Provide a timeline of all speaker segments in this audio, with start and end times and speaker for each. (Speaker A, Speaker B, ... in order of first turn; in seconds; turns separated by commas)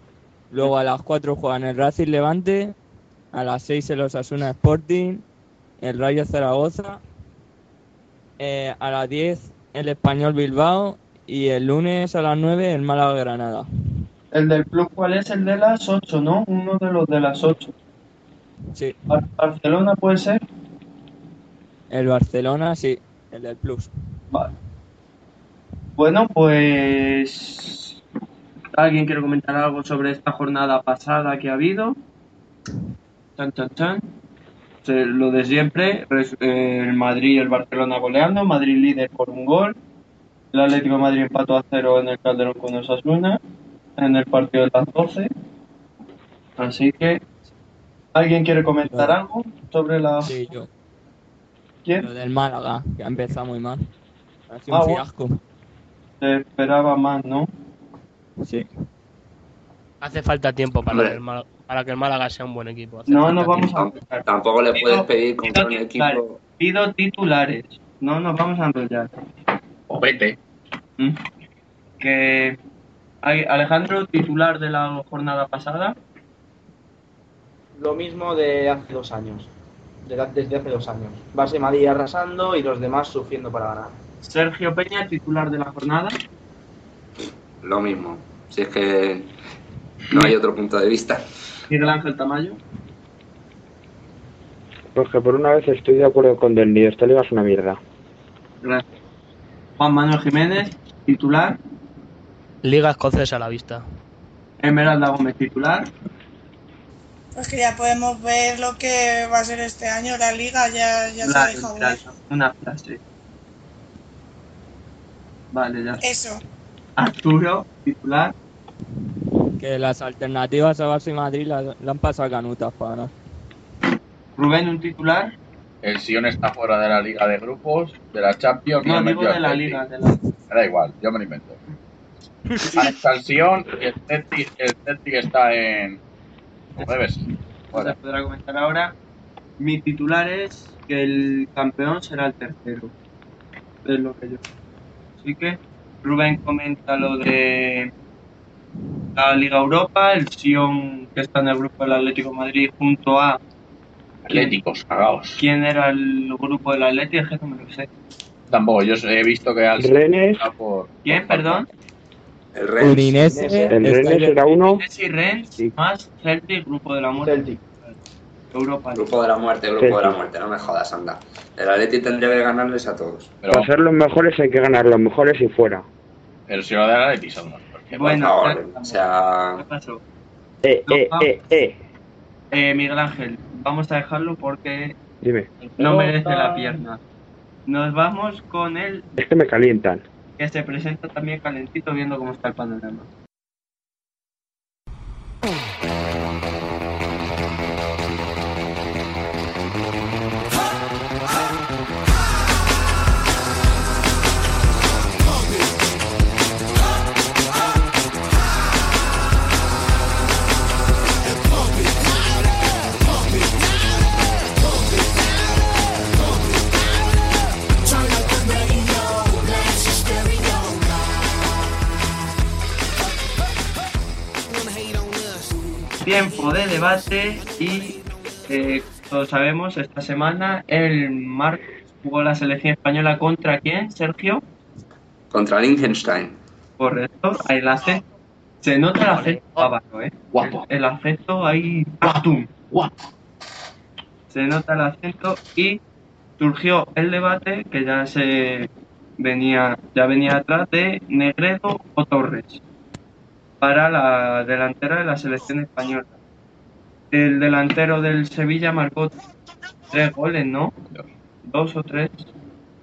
Speaker A: 0.5-2.8, Speaker A: 3.3-5.2, Speaker A: 5.8-7.0, Speaker A: 8.4-13.7, Speaker B: 14.3-17.7, Speaker B: 19.1-20.4, Speaker A: 21.9-23.9, Speaker B: 26.0-28.0, Speaker B: 28.7-32.0, Speaker B: 33.4-34.1, Speaker B: 34.8-39.8, Speaker B: 40.5-43.4, Speaker B: 44.0-45.3, Speaker B: 46.6-47.2, Speaker B: 48.1-50.3, Speaker A: 48.9-49.2, Speaker A: 50.2-50.7, Speaker A: 52.0-53.8, Speaker A: 54.5-55.4, Speaker B: 54.7-55.0, Speaker B: 56.2-57.5, Speaker A: 58.4-58.7, Speaker C: 60.0-63.7, Speaker D: 60.9-61.2, Speaker B: 63.1-69.1, Speaker D: 63.6-66.4, Speaker E: 69.9-70.4, Speaker B: 72.0-72.6, Speaker B: 73.2-76.0, Speaker F: 77.8-79.5, Speaker F: 80.0-84.0, Speaker B: 84.2-86.2, Speaker D: 87.6-89.3, Speaker D: 90.1-91.2, Speaker B: 91.7-92.6, Speaker G: 95.0-97.8, Speaker B: 99.8-101.6, Speaker C: 102.6-103.8, Speaker B: 104.6-105.9, Speaker H: 107.3-112.0, Speaker B: 111.2-113.0, Speaker B: 115.5-116.0, Speaker H: 116.0-116.4, Speaker B: 117.0-118.3, Speaker A: 119.6-123.1, Speaker B: 124.4-125.3, Speaker E: 125.8-129.8, Speaker B: 128.8-130.2, Speaker E: 130.5-131.6, Speaker E: 132.7-136.0, Speaker E: 136.8-138.0, Speaker B: 137.7-138.9, Speaker B: 139.6-142.9, Speaker B: 143.8-144.4, Speaker B: 145.2-147.9, Speaker B: 149.2-153.4, Speaker E: 154.2-155.4, Speaker B: 154.3-154.6, Speaker B: 155.4-157.9, Speaker E: 158.5-161.7, Speaker G: 159.8-160.5, Speaker B: 161.0-161.7, Speaker D: 162.5-163.2, Speaker A: 162.8-164.6, Speaker F: 163.2-163.8, Speaker G: 163.7-164.8, Speaker B: 164.6-167.9, Speaker F: 167.2-167.6, Speaker B: 168.5-169.1, Speaker D: 168.9-173.3, Speaker G: 169.8-170.2, Speaker E: 173.4-173.7, Speaker G: 173.5-175.9, Speaker E: 176.5-178.2, Speaker B: 177.9-179.0, Speaker D: 178.1-179.6, Speaker B: 179.6-180.0, Speaker G: 180.6-181.8, Speaker B: 180.9-181.3, Speaker B: 182.5-185.0, Speaker G: 185.2-185.5, Speaker B: 185.6-187.0, Speaker B: 187.7-189.1, Speaker G: 189.2-190.0, Speaker B: 190.4-193.1, Speaker I: 211.5-212.2, Speaker I: 213.1-213.5, Speaker I: 214.6-215.7, Speaker I: 216.2-216.4, Speaker I: 217.8-221.2, Speaker I: 224.5-226.5, Speaker B: 226.0-234.4, Speaker D: 235.3-236.4, Speaker B: 236.8-238.0, Speaker B: 238.6-242.5, Speaker C: 239.1-239.7, Speaker E: 240.3-240.7, Speaker E: 242.0-242.9, Speaker B: 244.3-245.8, Speaker B: 246.4-252.6, Speaker B: 253.6-256.2, Speaker B: 257.1-259.1, Speaker B: 259.9-260.7, Speaker B: 261.4-262.3